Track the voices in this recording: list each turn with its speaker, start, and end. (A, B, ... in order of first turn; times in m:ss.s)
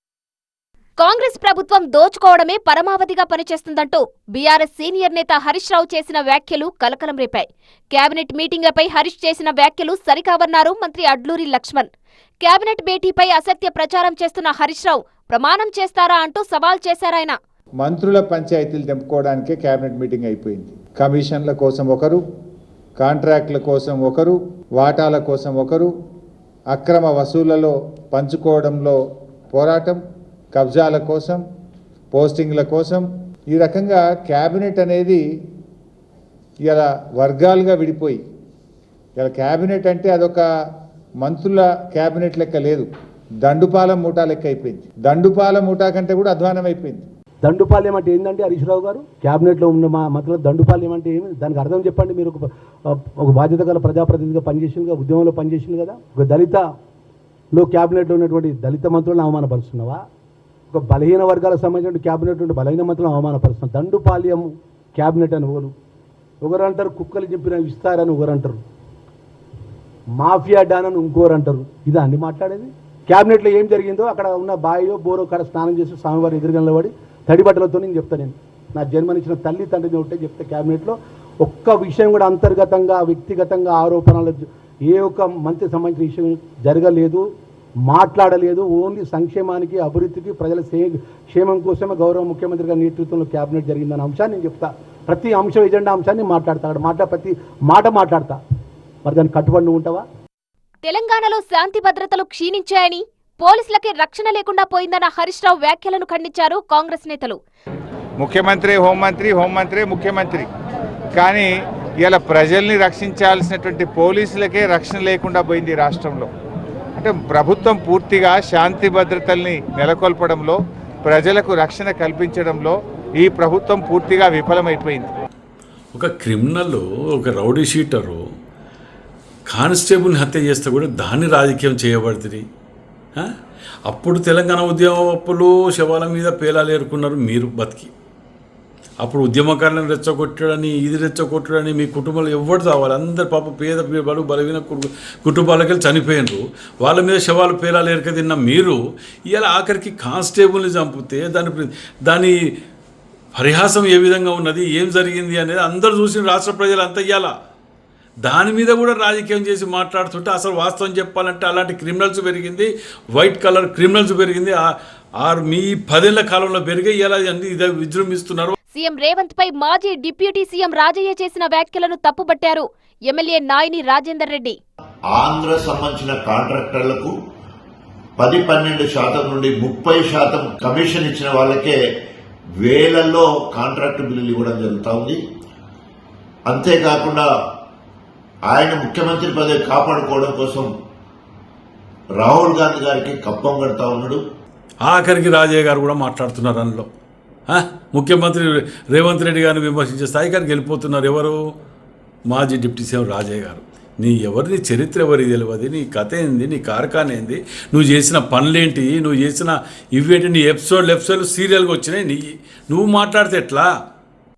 0:01.0-0:11.9 A
0:12.4-0:17.4 A
0:17.8-0:22.2 B
0:23.0-0:25.9 B
0:26.7-0:29.0 B
0:29.5-0:30.0 B
0:30.5-0:31.4 B
0:32.1-0:35.2 B
0:36.6-0:38.2 B
0:39.2-0:40.4 B
0:41.2-0:42.9 B
0:43.4-0:47.0 B
0:47.4-0:56.6 C
0:57.5-1:00.0 C
1:00.7-1:05.7 C
1:06.4-1:08.6 C
1:10.2-1:27.3 C
1:27.9-1:38.4 C
1:39.0-1:40.0 C
1:40.8-1:47.4 A
1:48.2-1:50.5 B
1:51.2-1:51.5 B
1:52.0-1:56.3 B
1:57.0-2:05.1 B
2:05.9-2:08.2 D
2:09.5-2:12.4 D
2:13.8-2:17.9 D
2:19.0-2:32.3 D
2:33.3-2:37.3 D
2:38.2-2:48.5 D
2:48.7-2:54.6 A
2:55.1-2:57.1 E
2:58.2-3:01.8 E
3:02.6-3:05.2 E
3:06.5-3:07.3 E
3:08.5-3:10.7 E
3:12.2-3:14.2 E
3:14.8-3:16.9 D
3:17.5-3:21.4 D
3:22.3-3:33.7 D